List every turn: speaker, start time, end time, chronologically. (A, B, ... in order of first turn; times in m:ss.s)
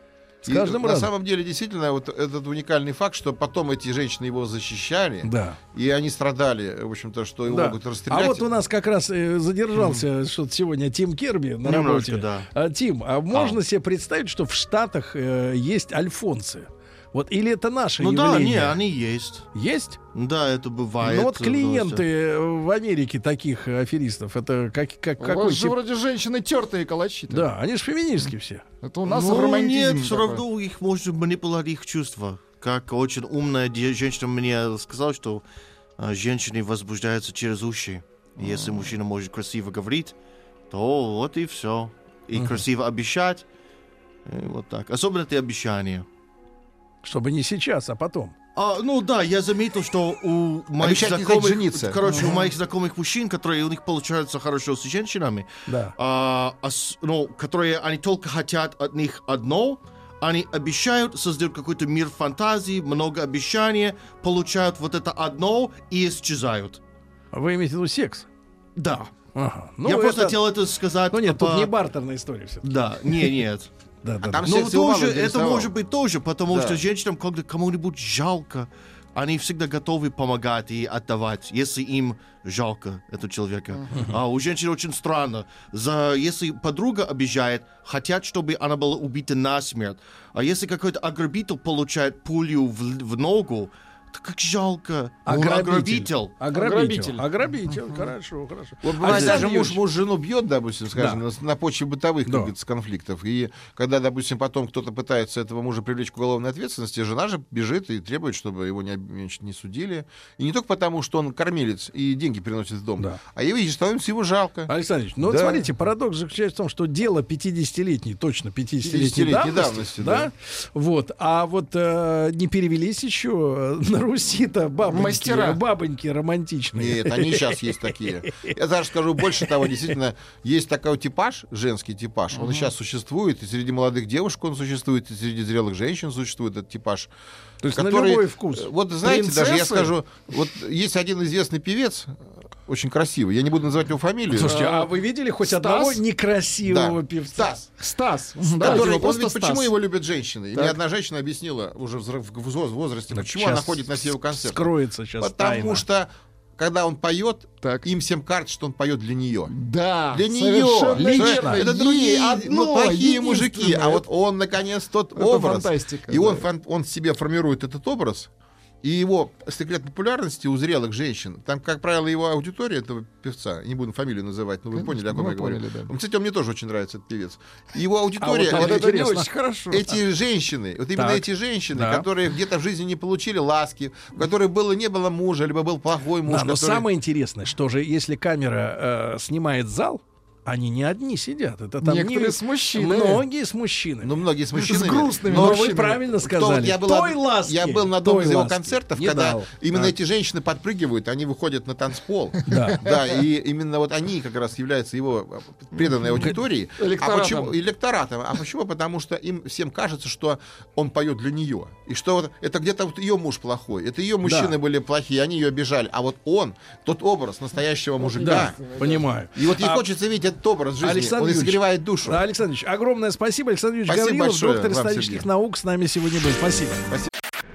0:00.4-0:08.5 A
0:00.5-0:01.1 B
0:05.2-0:05.6 B
0:07.5-0:18.8 B
0:09.8-0:10.0 C
0:11.6-0:12.5 C
0:13.3-0:13.6 C
0:18.0-0:19.5 C
0:19.5-0:20.0 B
0:20.1-0:22.0 C
0:21.0-0:25.8 B
0:25.2-0:27.5 D
0:27.3-0:28.6 B
0:28.8-0:30.4 D
0:29.1-0:35.4 C
0:36.0-0:40.2 C
0:38.4-0:38.9 D
0:40.7-0:43.4 C
0:42.4-0:42.6 B
0:44.3-0:46.1 C
0:47.0-0:48.4 B
0:48.6-1:06.8 C
0:50.8-0:52.0 A
0:52.0-0:52.5 D
0:55.7-0:56.0 B
1:07.3-1:08.3 B
1:08.8-1:09.2 C
1:09.3-1:10.5 B
1:09.8-1:11.7 C
1:11.1-1:13.3 B
1:12.6-1:13.7 C
1:14.0-1:14.5 B
1:14.2-1:15.8 A
1:14.4-1:36.4 C
1:16.5-1:16.8 A
1:35.3-1:39.8 B
1:36.5-1:38.1 D
1:38.8-1:55.7 A
1:39.1-1:39.4 C
1:41.0-1:41.2 B
1:42.3-1:42.5 B
1:54.7-2:08.5 B
1:58.8-2:00.3 A
2:04.9-2:05.6 D
2:06.7-2:17.1 A
2:09.3-2:09.7 B
2:12.3-2:12.7 D
2:17.6-2:18.7 B
2:17.6-2:24.6 A
2:19.0-2:19.9 D
2:24.3-2:27.6 B
2:24.4-2:26.0 D
2:26.6-2:27.6 A
2:27.8-2:29.7 D
2:28.6-2:28.9 B
2:28.6-2:39.5 A
2:33.1-2:35.8 B
2:37.6-2:37.9 D
2:39.5-2:44.0 D
2:40.1-2:48.3 A
2:41.0-2:41.6 B
2:45.2-2:46.5 D
2:48.8-2:59.0 A
2:54.8-2:56.0 D
2:58.2-2:59.3 B
2:58.5-2:59.9 D
2:59.7-3:06.9 A
3:01.0-3:02.1 B
3:06.3-3:14.2 B
3:11.8-3:13.2 D
3:14.0-3:38.6 A
3:14.6-3:16.0 D
3:14.7-3:19.9 B
3:22.5-3:22.9 B
3:25.8-3:27.6 D
3:34.2-3:34.6 B
3:38.0-3:39.1 D
3:38.2-3:39.8 B
3:39.4-3:42.2 A
3:40.8-3:46.9 B
3:43.9-3:45.3 A
3:46.9-3:47.1 A